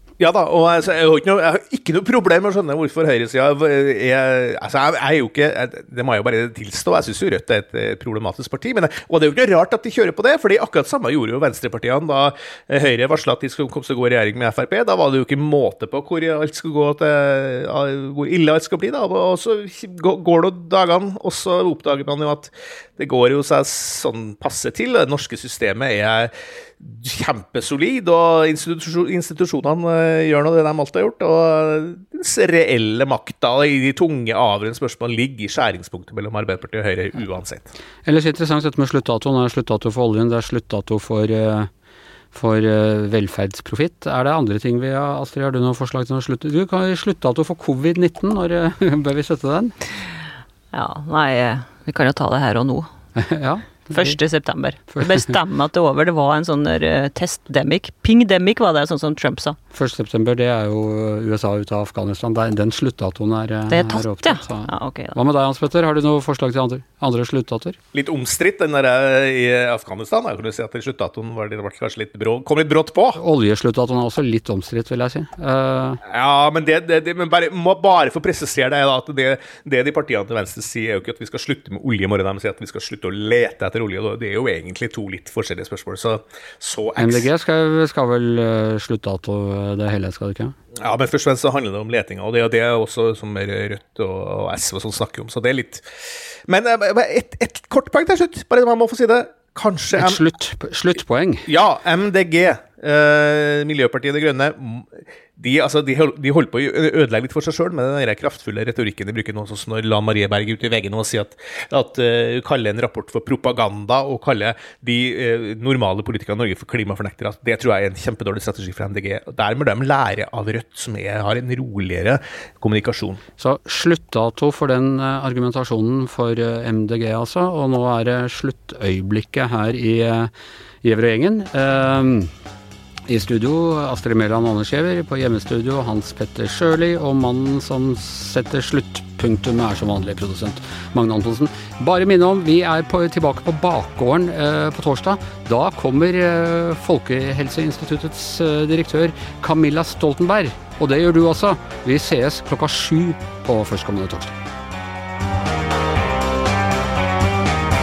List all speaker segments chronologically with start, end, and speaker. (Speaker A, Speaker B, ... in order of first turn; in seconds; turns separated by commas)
Speaker A: 0.2-37.7, Speaker B: 38.0-41.7, Speaker B: 42.3-49.7, Speaker C: 50.7-52.9, Speaker B: 53.1-54.2, Speaker C: 53.9-59.6, Speaker B: 54.9-55.3, Speaker B: 59.7-67.8, Speaker C: 63.7-65.2, Speaker A: 67.9-73.2, Speaker B: 73.2-76.0, Speaker A: 76.1-87.3, Speaker B: 87.0-90.5, Speaker A: 90.8-95.8, Speaker A: 96.5-100.2, Speaker B: 100.0-101.5, Speaker A: 101.5-123.2, Speaker B: 123.4-130.3, Speaker B: 130.8-132.3, Speaker B: 133.1-154.3